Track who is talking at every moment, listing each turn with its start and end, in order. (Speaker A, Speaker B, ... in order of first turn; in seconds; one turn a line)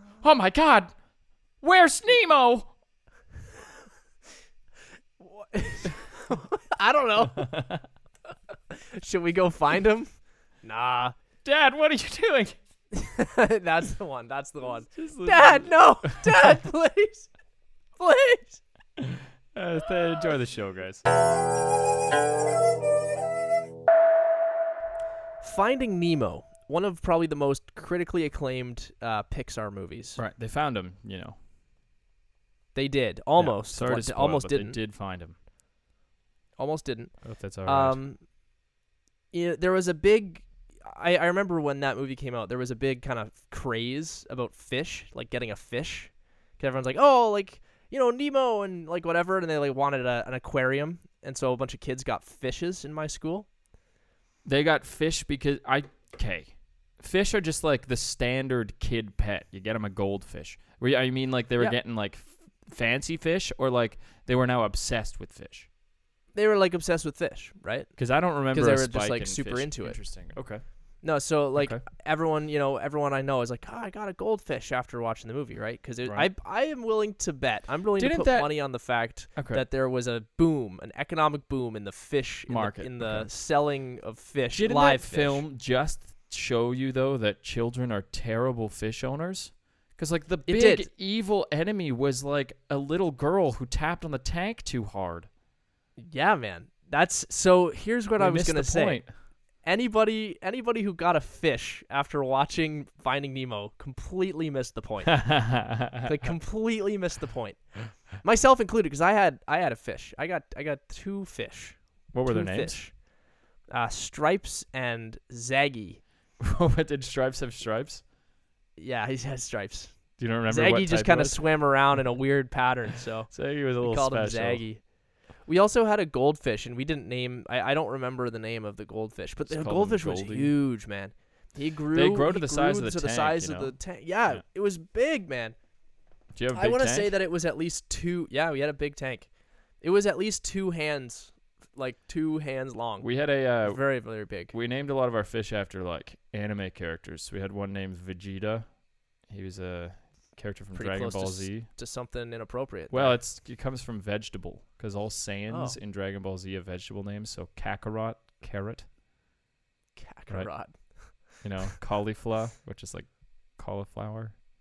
Speaker A: 0.2-0.9
Speaker A: 1.6-2.7
Speaker B: 5.2-7.5
Speaker A: 7.4-7.8
Speaker B: 8.7-10.1
Speaker B: 10.6-11.1
Speaker A: 11.4-12.6
Speaker B: 12.9-17.3
Speaker A: 14.9-16.4
Speaker B: 18.0-18.6
Speaker A: 19.0-21.0
Speaker B: 25.4-30.2
Speaker A: 30.1-31.4
Speaker B: 32.7-34.8
Speaker A: 33.4-35.3
Speaker B: 36.6-38.2
Speaker A: 37.2-38.0
Speaker B: 39.3-53.5
Speaker A: 54.4-65.7
Speaker B: 66.3-67.9
Speaker A: 68.0-70.6
Speaker B: 68.4-70.0
Speaker B: 71.0-85.4
Speaker A: 71.5-71.8
Speaker A: 78.0-78.5
Speaker A: 79.3-79.6
Speaker A: 82.5-83.3
Speaker A: 84.5-95.3
Speaker B: 90.5-90.9
Speaker B: 96.0-99.0
Speaker A: 98.2-99.1
Speaker B: 99.6-113.0
Speaker A: 105.1-106.1
Speaker A: 112.1-112.8
Speaker B: 113.7-116.0
Speaker A: 116.4-118.0
Speaker B: 118.8-124.8
Speaker A: 120.2-122.0
Speaker A: 123.3-124.7
Speaker B: 125.4-135.5
Speaker A: 129.4-130.5
Speaker A: 131.9-134.4
Speaker A: 136.3-137.1
Speaker B: 136.5-144.5
Speaker A: 143.0-148.7
Speaker A: 149.3-151.7
Speaker B: 150.7-153.2
Speaker A: 152.9-158.8
Speaker B: 155.5-155.8
Speaker B: 159.9-161.1
Speaker A: 161.4-164.3